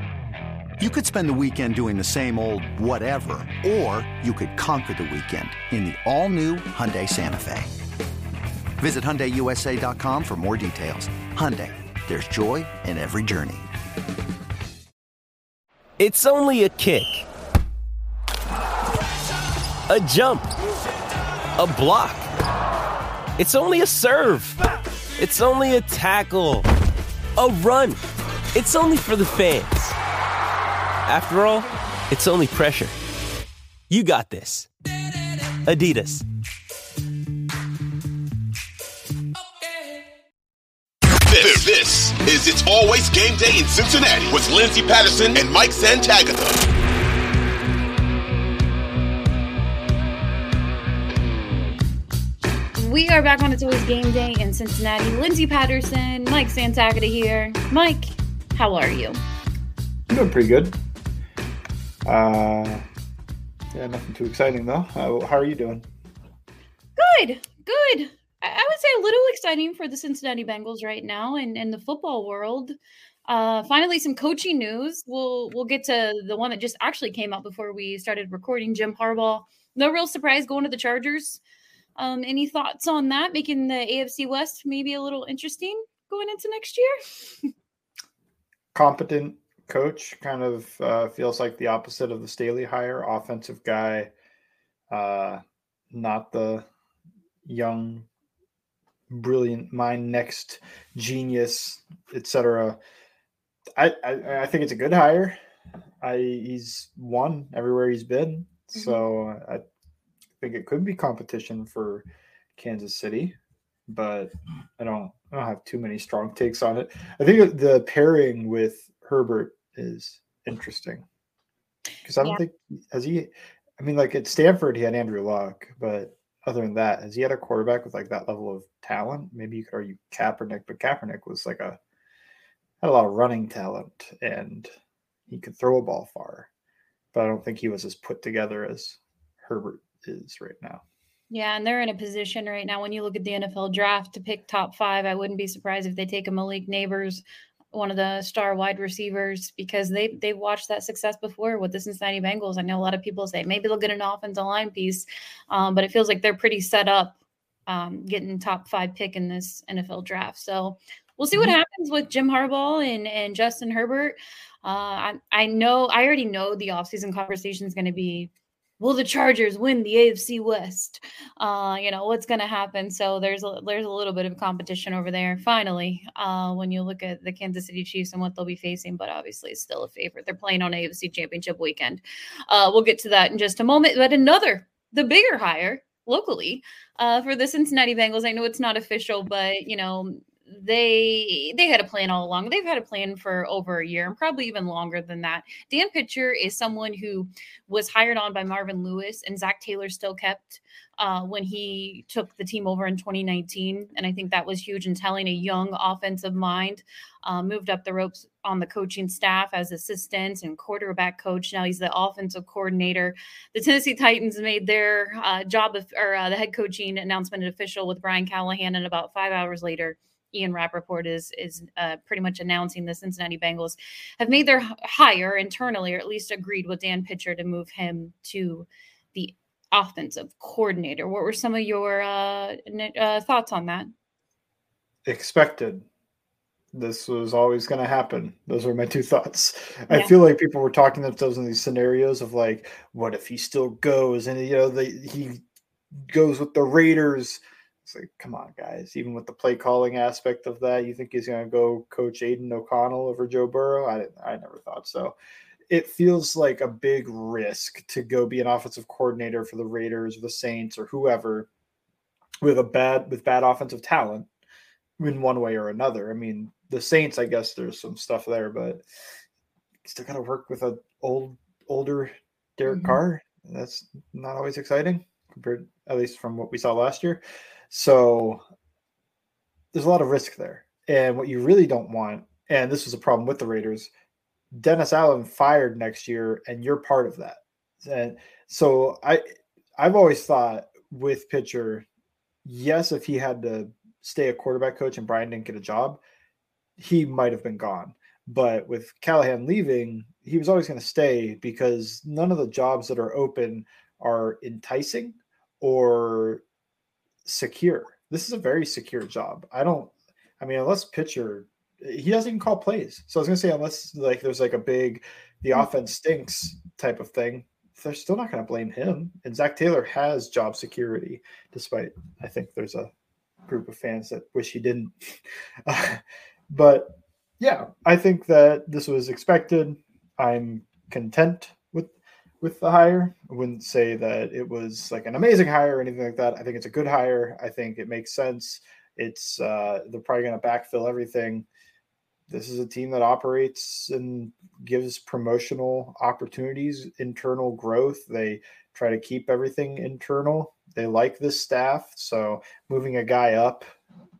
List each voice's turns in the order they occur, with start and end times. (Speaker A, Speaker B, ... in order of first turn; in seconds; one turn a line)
Speaker A: 0.8-7.7
Speaker A: 8.8-13.7
Speaker B: 16.0-17.2
Speaker B: 19.9-20.5
Speaker B: 21.6-22.3
Speaker B: 23.4-24.6
Speaker B: 25.2-26.7
Speaker B: 27.4-28.0
Speaker B: 28.5-29.9
Speaker B: 31.1-32.9
Speaker B: 33.9-34.7
Speaker B: 35.6-36.2
Speaker C: 41.2-46.6
Speaker D: 52.8-59.2
Speaker E: 60.1-60.8
Speaker E: 62.0-62.9
Speaker E: 63.7-65.8
Speaker D: 67.0-72.7
Speaker D: 73.3-81.4
Speaker D: 82.0-87.5
Speaker E: 88.7-94.1
Speaker E: 94.9-96.7
Speaker E: 97.4-98.1
Speaker E: 99.1-102.8
Speaker E: 103.8-105.4
Speaker E: 106.0-109.6
Speaker D: 108.8-109.0
Speaker E: 110.4-112.0
Speaker E: 112.6-113.3
Speaker E: 113.9-121.0
Speaker E: 122.0-131.8
Speaker E: 132.8-134.7
Speaker E: 135.3-136.5
Speaker E: 137.1-140.8
Speaker D: 141.3-233.9
Speaker E: 235.0-235.8
Speaker E: 236.7-245.4
Speaker E: 245.9-255.2
Speaker E: 255.7-261.5
Speaker E: 262.4-264.3
Speaker E: 265.0-268.8
Speaker E: 269.8-278.4
Speaker D: 272.7-273.0
Speaker E: 279.7-283.9
Speaker E: 284.5-289.2
Speaker E: 289.8-291.8
Speaker E: 292.4-296.0
Speaker E: 296.8-306.4
Speaker E: 307.2-322.9
Speaker E: 323.5-341.4
Speaker E: 342.3-353.7